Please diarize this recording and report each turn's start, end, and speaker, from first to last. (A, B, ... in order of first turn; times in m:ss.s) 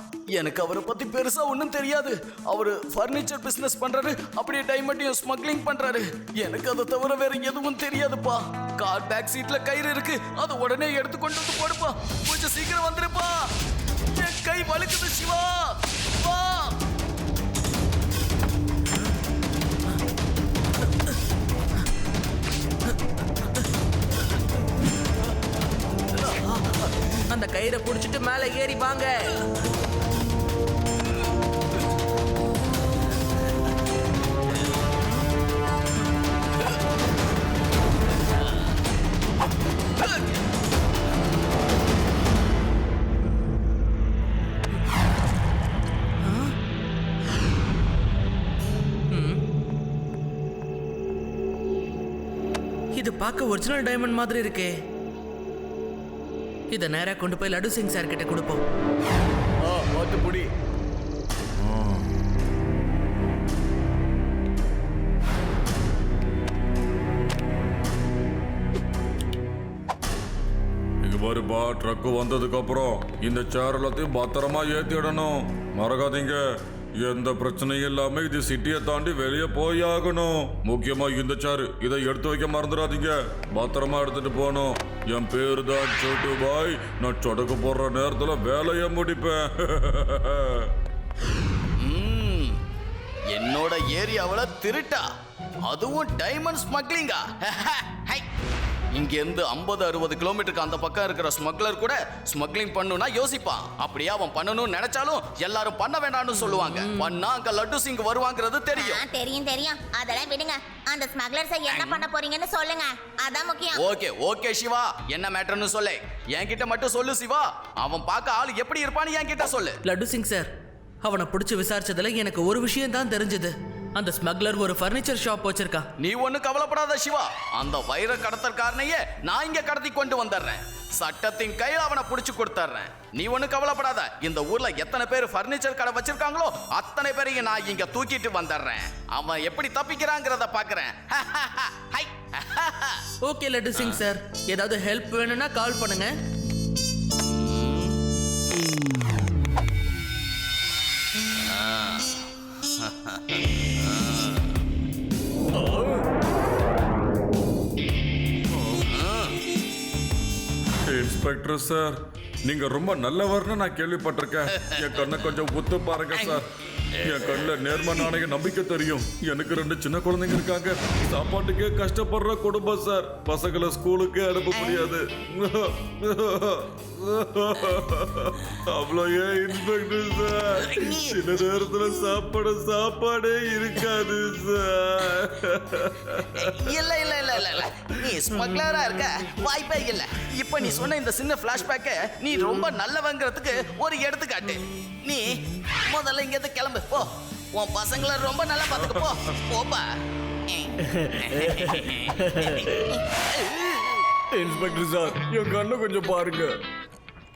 0:00.3-0:13.5 A
0:14.1-0:16.7 A
0:27.3-0:29.3 B
0:46.2-0:46.5 B
0:49.1-0:49.4 B
0:53.0-0:54.7 B
0:56.7-0:58.6 B
0:59.6-1:00.5 C
1:11.0-1:16.4 D
1:17.0-1:30.7 D
1:31.8-1:32.5 A
1:33.3-1:35.0 A
1:35.7-1:38.2 A
1:38.9-1:49.0 A
1:46.5-1:47.1 B
1:48.7-1:53.8 E
1:51.7-1:52.1 A
1:53.7-1:59.7 A
1:59.8-2:00.5 B
2:01.0-2:05.8 B
2:06.0-2:23.0 A
2:23.2-2:26.1 B
2:27.4-2:28.0 A
2:31.5-2:32.2 A
2:32.8-2:34.4 A
2:35.6-2:35.9 C
2:38.9-2:39.4 A
2:40.8-2:46.4 D
2:47.0-3:06.5 D
3:00.7-3:01.1 A
3:06.4-3:15.3 A
3:15.8-3:19.8 A
3:20.9-3:22.8 C
3:21.2-3:22.7 A
3:24.3-3:26.6 C